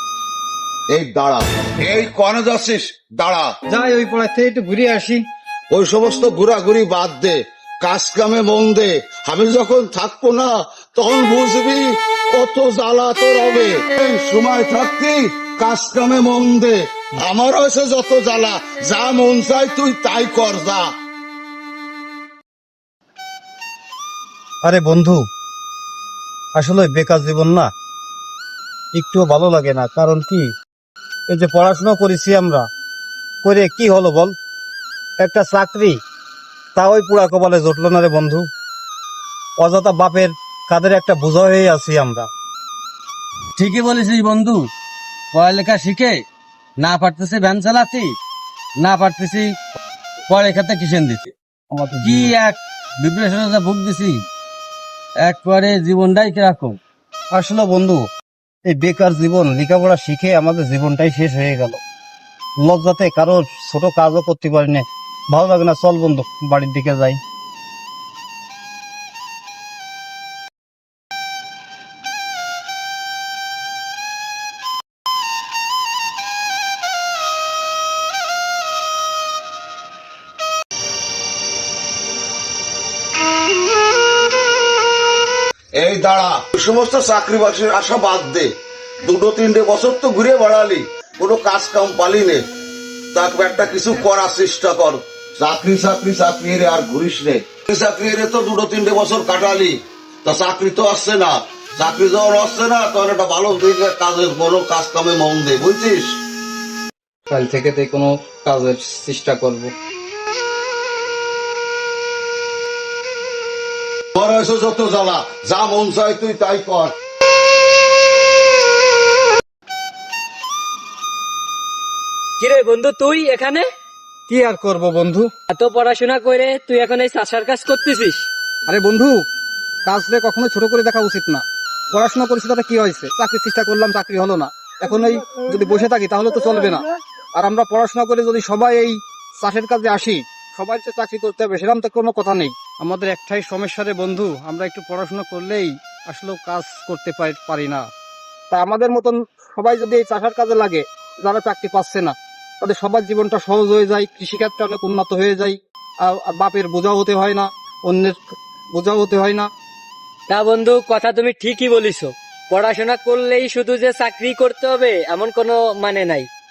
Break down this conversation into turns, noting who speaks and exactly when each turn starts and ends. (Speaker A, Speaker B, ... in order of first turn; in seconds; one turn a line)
Speaker A: 0.9-3.5
Speaker B: 3.7-5.2
Speaker A: 5.7-20.9
Speaker B: 24.6-25.2
Speaker B: 26.6-27.7
Speaker B: 28.9-30.5
Speaker B: 31.3-32.6
Speaker B: 33.4-34.3
Speaker B: 35.2-36.0
Speaker B: 36.8-38.5
Speaker B: 39.6-42.3
Speaker C: 43.6-44.6
Speaker C: 45.3-46.2
Speaker C: 46.8-48.1
Speaker C: 48.8-49.5
Speaker C: 50.3-51.3
Speaker B: 51.7-52.3
Speaker C: 52.0-54.2
Speaker C: 55.2-56.8
Speaker B: 57.3-58.0
Speaker B: 58.6-61.8
Speaker B: 62.6-67.2
Speaker A: 85.8-88.5
Speaker A: 89.0-92.4
Speaker A: 93.1-106.2
Speaker B: 107.3-109.7
Speaker A: 114.1-116.9
Speaker D: 122.4-123.7
Speaker B: 124.3-125.3
Speaker D: 125.5-128.2
Speaker B: 128.7-129.1
Speaker B: 129.8-136.8
Speaker B: 137.4-147.8
Speaker B: 148.5-158.2
Speaker B: 158.7-159.5
Speaker D: 160.3-166.3